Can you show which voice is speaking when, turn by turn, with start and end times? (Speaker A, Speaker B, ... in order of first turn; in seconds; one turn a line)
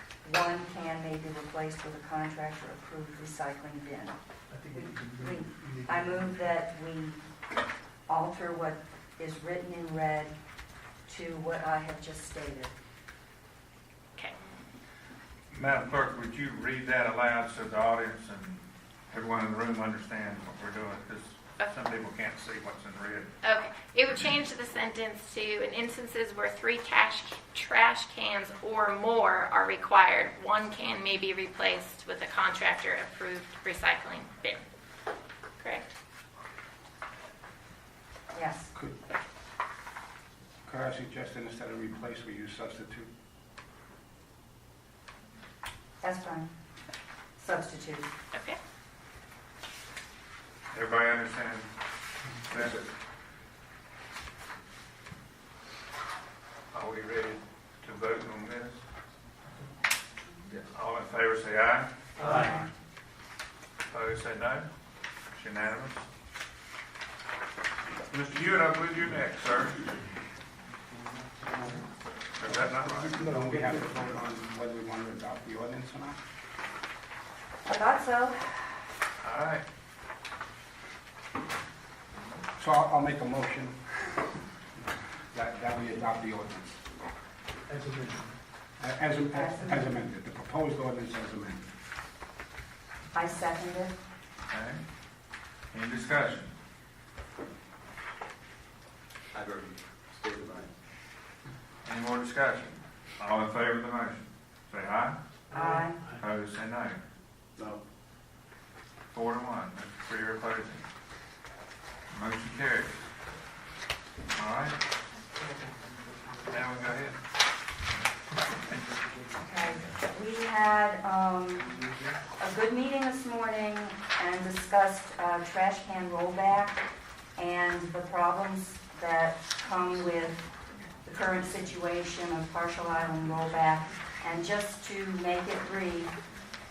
Speaker A: 0.2-4.2
Speaker B: 4.5-6.6
Speaker A: 4.7-7.2
Speaker A: 8.1-10.3
Speaker A: 11.1-12.7
Speaker C: 15.5-23.3
Speaker D: 23.4-34.6
Speaker A: 38.3-38.7
Speaker E: 40.6-43.1
Speaker A: 46.0-46.5
Speaker A: 47.4-48.1
Speaker C: 50.7-51.7
Speaker C: 52.5-52.8
Speaker F: 52.5-52.9
Speaker C: 56.7-58.8
Speaker C: 60.7-62.4
Speaker B: 62.2-62.6
Speaker C: 63.9-64.7
Speaker C: 65.3-66.0
Speaker C: 68.1-69.9
Speaker C: 72.4-73.3
Speaker E: 72.8-76.2
Speaker B: 72.9-73.8
Speaker A: 77.7-78.8
Speaker C: 79.2-79.6
Speaker E: 82.6-83.8
Speaker E: 84.8-86.8
Speaker B: 87.7-88.3
Speaker E: 88.8-91.7
Speaker A: 89.3-89.9
Speaker A: 93.1-94.0
Speaker C: 94.5-94.8
Speaker C: 95.7-96.5
Speaker F: 99.3-100.7
Speaker C: 101.8-105.2
Speaker B: 105.5-106.2
Speaker A: 105.5-106.1
Speaker C: 106.2-107.0
Speaker F: 107.6-107.8
Speaker C: 109.1-110.8
Speaker C: 112.1-113.0
Speaker C: 114.3-114.8
Speaker C: 116.5-117.2
Speaker A: 119.4-121.8
Speaker A: 122.4-130.5
Speaker A: 131.1-136.1